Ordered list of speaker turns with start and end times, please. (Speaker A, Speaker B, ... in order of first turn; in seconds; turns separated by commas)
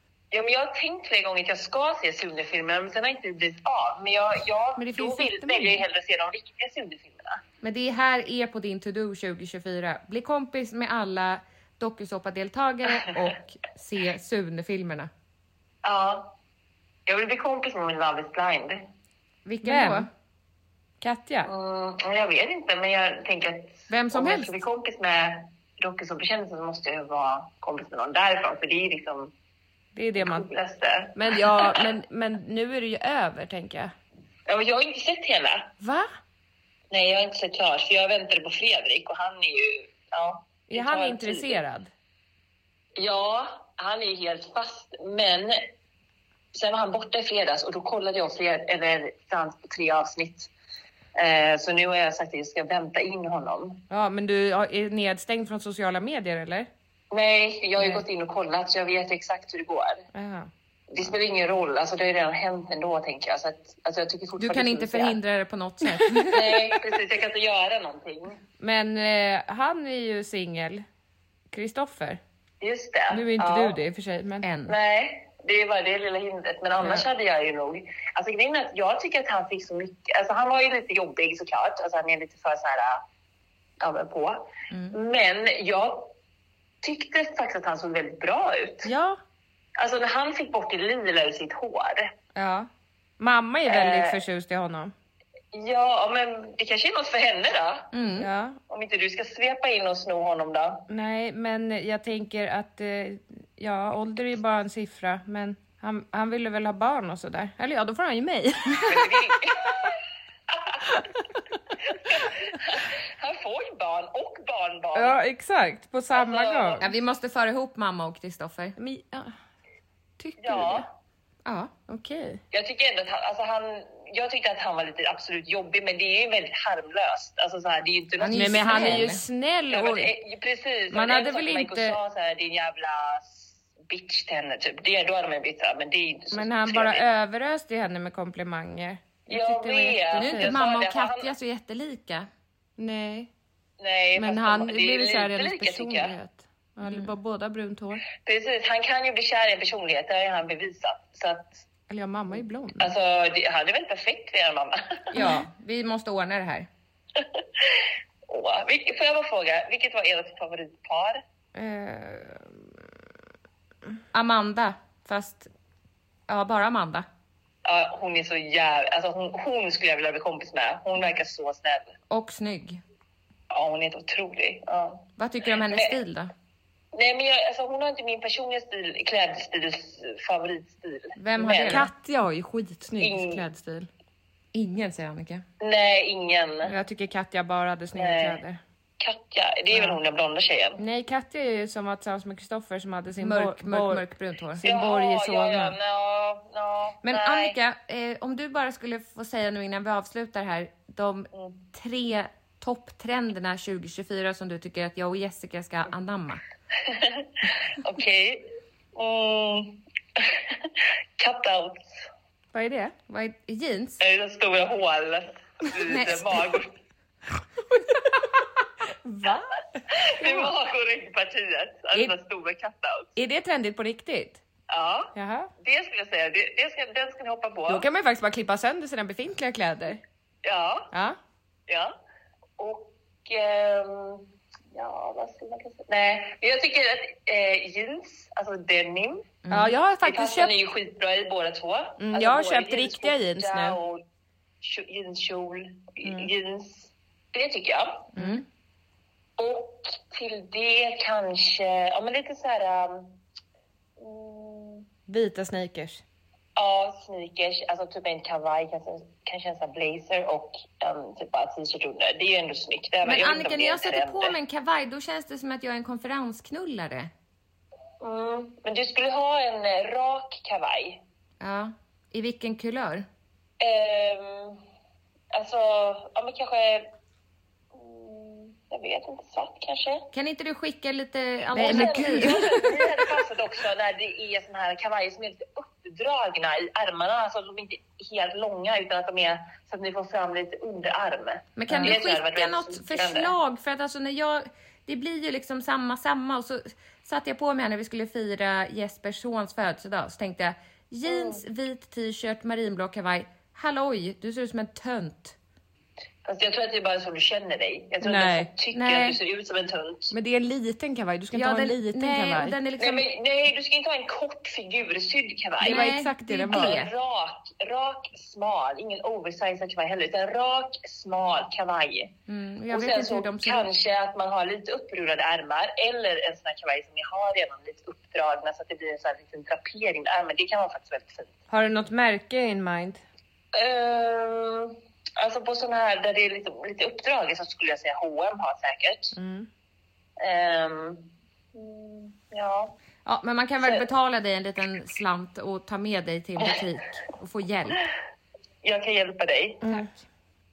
Speaker A: 0.3-7.4, Speaker B: 4.8-5.8, Speaker C: 7.6-15.1, Speaker A: 15.8-16.3, Speaker A: 17.1-18.8, Speaker C: 19.4-20.1, Speaker B: 19.6-20.1, Speaker B: 21.0-21.5, Speaker A: 21.4-29.3, Speaker C: 23.9-24.5, Speaker B: 29.9-30.5, Speaker A: 30.2-31.8, Speaker B: 31.1-33.9, Speaker A: 34.5-35.7, Speaker B: 35.8-36.1, Speaker A: 36.9-41.6, Speaker B: 40.7-41.9, Speaker A: 43.0-45.6, Speaker A: 46.5-50.5, Speaker A: 51.1-53.8, Speaker B: 53.9-56.7, Speaker A: 57.1-60.0, Speaker B: 60.1-60.5, Speaker A: 60.9-65.2, Speaker C: 64.4-66.7, Speaker B: 66.0-66.3, Speaker A: 66.3-68.4, Speaker B: 68.6-70.8, Speaker B: 71.5-72.2, Speaker A: 72.6-73.8, Speaker B: 73.1-74.5, Speaker C: 74.4-74.7, Speaker A: 74.7-83.0, Speaker B: 76.8-77.0, Speaker A: 83.8-86.1, Speaker C: 84.7-85.0, Speaker A: 86.8-88.9, Speaker B: 88.8-89.2, Speaker A: 89.8-92.1, Speaker B: 92.3-92.7, Speaker B: 93.2-94.9, Speaker A: 93.7-94.2, Speaker A: 95.5-97.9, Speaker C: 97.9-98.3, Speaker B: 98.2-98.6, Speaker A: 98.6-100.8, Speaker B: 100.9-109.3, Speaker A: 108.8-110.0, Speaker A: 110.5-111.0, Speaker A: 111.8-115.2, Speaker B: 114.9-116.9, Speaker A: 116.1-116.9, Speaker C: 116.8-118.8, Speaker B: 118.8-119.3, Speaker B: 120.2-120.8, Speaker A: 120.4-120.9, Speaker C: 121.4-121.7, Speaker B: 121.9-122.4, Speaker A: 122.5-129.1, Speaker C: 128.2-129.2, Speaker B: 128.3-130.2, Speaker A: 129.7-137.1, Speaker B: 130.9-131.6, Speaker C: 130.9-131.9, Speaker B: 136.3-140.6, Speaker A: 139.3-141.3, Speaker C: 140.2-142.3, Speaker B: 142.8-143.3, Speaker A: 143.8-146.2, Speaker B: 144.1-148.0, Speaker C: 146.8-147.1, Speaker A: 148.2-151.7, Speaker B: 151.9-152.9, Speaker A: 152.8-155.1, Speaker B: 155.1-155.5, Speaker C: 155.1-156.7, Speaker A: 157.2-161.2, Speaker B: 161.5-162.6, Speaker C: 164.1-165.5, Speaker C: 166.3-167.1, Speaker A: 167.6-171.9, Speaker C: 172.1-172.8, Speaker A: 173.5-175.1, Speaker C: 175.2-176.3, Speaker A: 175.6-176.0, Speaker A: 176.9-181.9, Speaker C: 181.2-181.9, Speaker B: 181.6-183.9, Speaker A: 183.0-183.4, Speaker C: 184.5-185.4, Speaker A: 185.6-186.7, Speaker B: 186.6-188.6, Speaker A: 187.9-188.4, Speaker A: 189.0-190.8, Speaker B: 189.7-190.0, Speaker B: 190.8-195.8, Speaker C: 193.2-194.6, Speaker A: 194.6-197.6, Speaker C: 197.0-206.4, Speaker A: 201.3-201.6, Speaker A: 206.8-212.0, Speaker B: 212.5-212.9, Speaker C: 213.1-214.0, Speaker A: 214.0-216.8, Speaker C: 215.8-216.5, Speaker B: 219.0-220.5, Speaker A: 219.9-223.1, Speaker B: 223.2-224.4, Speaker A: 224.7-227.9, Speaker B: 225.1-225.5, Speaker B: 227.7-230.0, Speaker A: 230.4-230.9, Speaker A: 231.7-231.9, Speaker A: 232.6-239.4, Speaker C: 239.4-239.7, Speaker B: 239.5-240.5, Speaker A: 240.0-244.0, Speaker B: 242.0-243.8, Speaker A: 244.6-248.1, Speaker B: 246.0-246.3, Speaker C: 248.2-248.4, Speaker B: 248.2-248.4, Speaker A: 249.4-253.2, Speaker A: 254.0-254.9, Speaker B: 255.1-256.0, Speaker A: 256.6-264.3, Speaker C: 263.0-267.1, Speaker A: 268.0-271.0, Speaker C: 271.4-273.1, Speaker A: 273.6-274.6, Speaker A: 275.3-276.9, Speaker A: 277.7-280.1, Speaker C: 280.1-282.9, Speaker A: 281.5-293.3, Speaker B: 281.5-282.6, Speaker C: 291.6-305.4, Speaker A: 301.1-301.4, Speaker A: 306.2-310.1, Speaker B: 308.0-308.5, Speaker C: 308.7-309.2, Speaker B: 310.1-312.5, Speaker C: 311.3-313.1, Speaker A: 312.8-315.9, Speaker B: 315.6-316.8, Speaker C: 315.6-316.9, Speaker A: 316.5-322.1, Speaker C: 322.3-323.7, Speaker A: 322.7-331.3, Speaker B: 331.5-333.0, Speaker A: 333.5-339.1, Speaker B: 339.1-339.5, Speaker A: 340.2-342.7, Speaker C: 343.0-347.8, Speaker A: 348.6-349.6, Speaker B: 349.6-349.9